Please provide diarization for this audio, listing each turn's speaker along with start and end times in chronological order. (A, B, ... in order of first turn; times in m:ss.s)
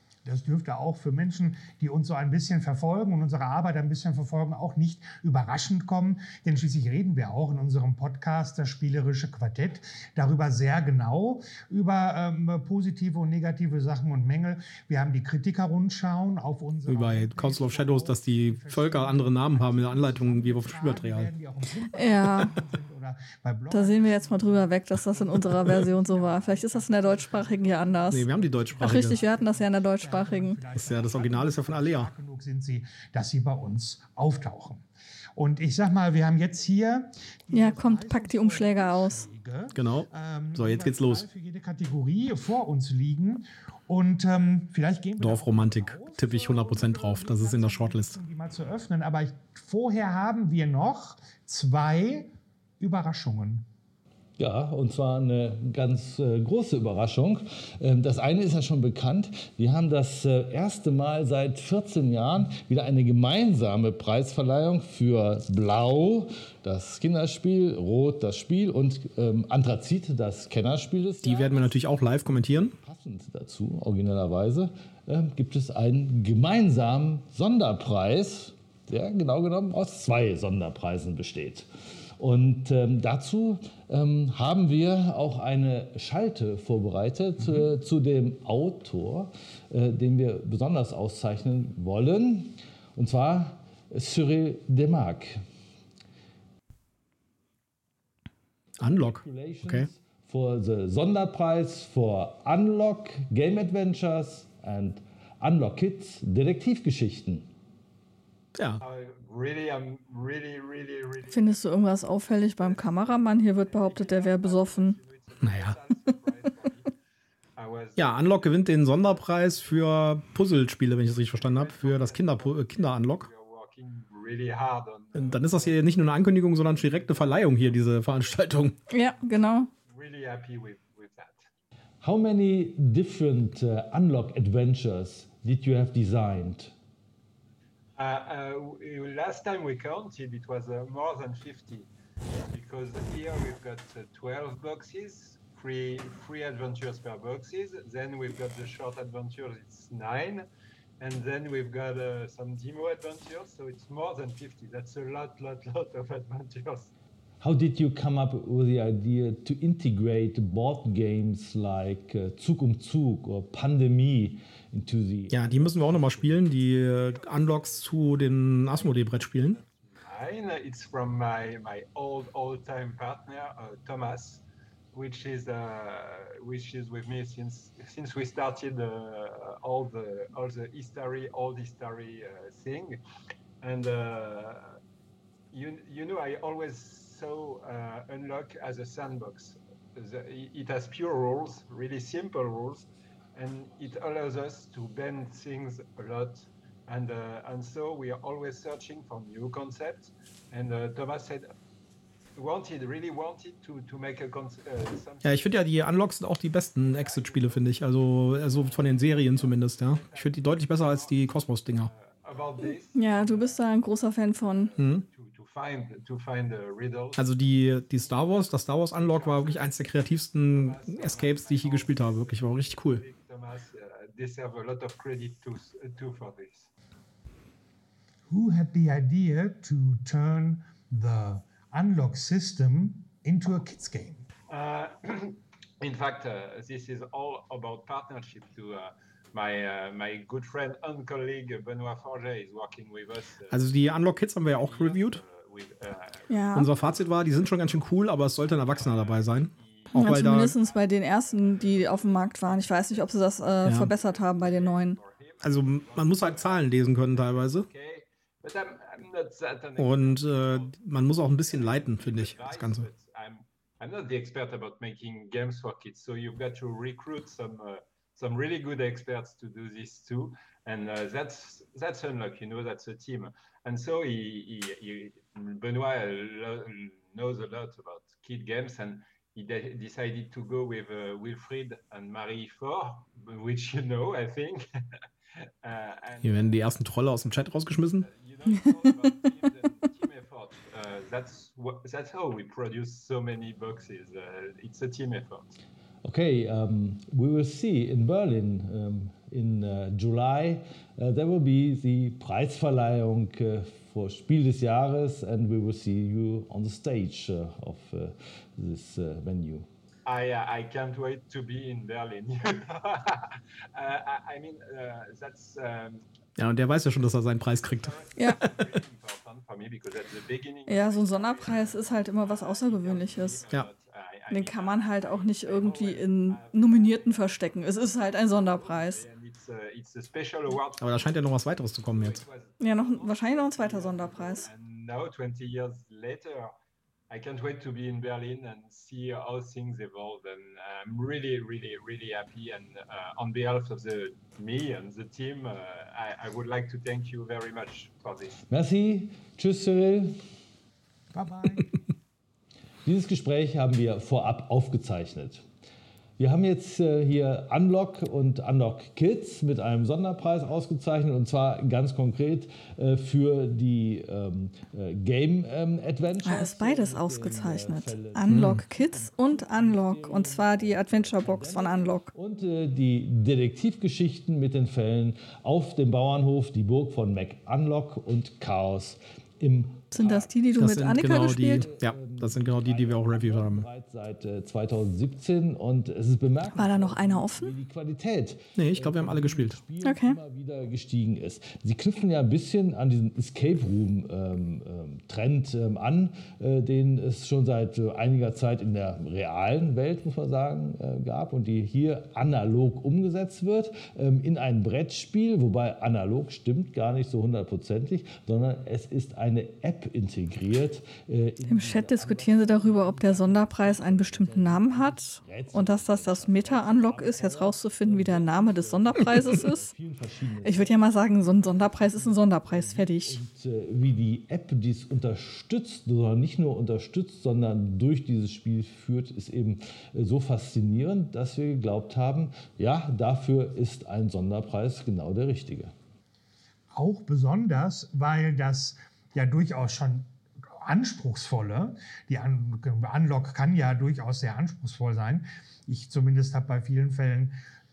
0:00.2-0:34.8 A
0:16.8-0:21.3 B
0:21.9-0:22.5 C
0:23.7-0:30.6 C
0:28.1-0:29.2 B
0:30.7-0:32.1 B
0:35.4-0:53.6 A
0:37.5-0:39.3 C
0:39.7-0:41.2 B
0:45.2-0:48.2 B
0:54.4-1:21.7 D
1:11.2-1:12.8 B
1:22.2-1:35.4 D
1:38.8-1:39.9 B
1:38.8-1:47.5 D
1:48.6-1:48.8 B
1:48.8-1:56.9 E
1:51.3-1:55.0 C
1:55.4-1:55.8 B
1:57.6-2:00.0 E
1:58.0-2:03.3 B
2:01.3-2:08.9 E
2:05.1-2:08.8 B
2:08.9-2:09.7 C
2:09.8-2:11.5 E
2:12.0-2:16.7 D
2:18.0-2:21.9 E
2:22.5-2:30.4 E
2:31.0-2:36.9 E
2:37.4-2:46.3 D
2:45.3-2:49.6 B
2:45.6-3:03.0 E
3:03.6-3:04.8 E
3:05.5-3:21.5 E
3:22.4-3:26.1 E
3:25.2-3:31.9 B
3:26.8-3:46.7 E
3:32.9-3:34.7 C
3:34.8-3:35.0 B
3:37.2-3:43.0 B
3:48.3-3:54.2 A
3:54.5-4:03.7 E
4:03.5-4:05.2 B
4:04.4-4:44.6 E
4:06.3-4:06.7 C
4:06.5-4:10.6 B
4:09.9-4:15.0 C
4:13.6-4:13.9 B
4:15.4-4:17.7 B
4:19.8-4:22.9 B
4:45.6-4:55.6 E
4:46.2-4:48.0 B
4:56.0-5:09.7 D
5:10.0-5:16.0 E
5:16.4-5:18.7 B
5:17.4-5:31.3 E
5:18.2-5:18.4 C
5:20.7-5:23.4 C
5:24.3-5:29.0 C
5:30.8-5:32.2 B
5:31.8-5:36.5 E
5:32.6-5:34.5 C
5:37.1-5:48.4 E
5:48.5-5:50.2 D
5:51.1-5:51.8 A
5:52.8-5:55.4 D
5:56.2-6:20.5 D
6:06.2-6:12.1 C
6:08.3-6:08.6 B
6:19.9-6:21.7 C
6:20.6-6:23.6 B
6:21.1-7:15.7 D
6:26.5-6:27.5 C
6:28.6-6:29.6 B
6:29.8-6:30.2 C
6:51.5-6:59.7 C
7:00.4-7:03.2 C
7:16.7-7:20.1 A
7:20.6-7:27.4 A